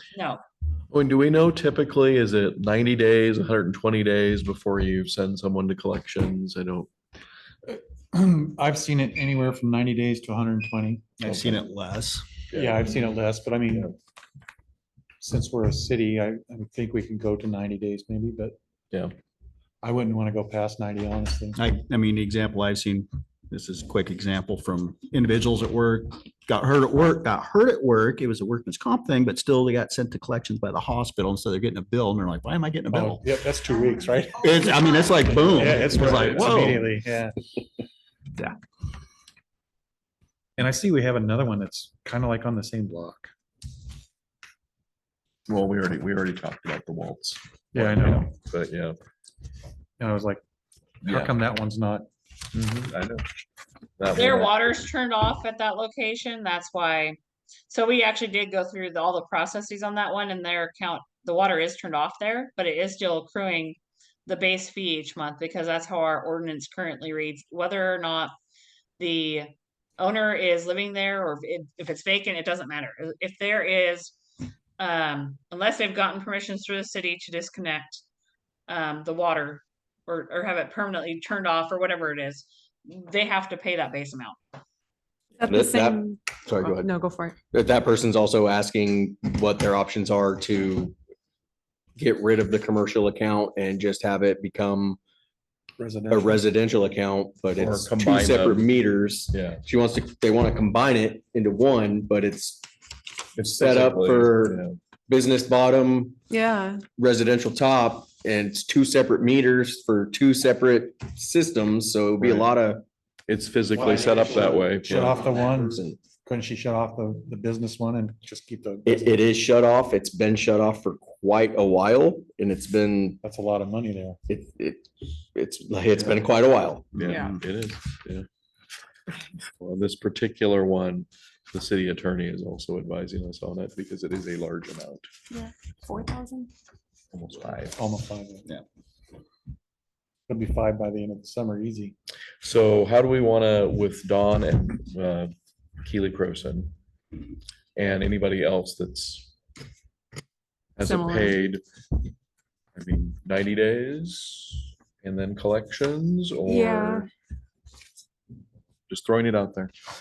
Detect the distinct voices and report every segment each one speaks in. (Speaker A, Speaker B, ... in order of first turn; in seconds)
Speaker A: 0.1-0.4, 54.1-57.2, 57.7-68.3, 69.0-74.1, 74.8-78.0, 78.7-84.4
Speaker B: 0.9-6.9, 11.3-11.6, 12.5-13.0, 36.0-36.6, 45.5-49.0, 51.0-51.4, 52.5-53.2, 54.0-54.6, 97.5-99.6, 103.4-104.7, 112.2-112.6, 113.3-115.1, 127.0-128.3, 129.6-135.1, 137.1-137.8, 142.4-145.3, 145.8-146.7, 147.8-149.3, 150.8-151.6, 152.8-157.1, 158.9-159.7
Speaker C: 7.7-11.2, 12.6-13.9, 15.2-18.6, 19.8-21.6, 32.9-34.5, 35.5-37.4, 40.6-43.3, 47.7-48.3, 50.0-50.4, 51.0-52.1, 95.8-96.5, 113.8-119.1, 123.2-124.2, 126.0-126.2, 137.8-138.5, 140.3-141.9
Speaker D: 11.2-12.3, 21.6-33.2, 34.4-36.9, 127.0-127.4
Speaker E: 85.4-87.3, 106.3-106.8, 127.0-127.3, 135.3-136.5, 150.8-151.4, 156.4-157.1
Speaker F: 85.5-86.9, 87.5-91.0, 92.0-95.0, 96.1-102.7, 103.5-106.2, 107.0-112.8, 113.8-116.0, 118.8-123.2, 124.3-126.9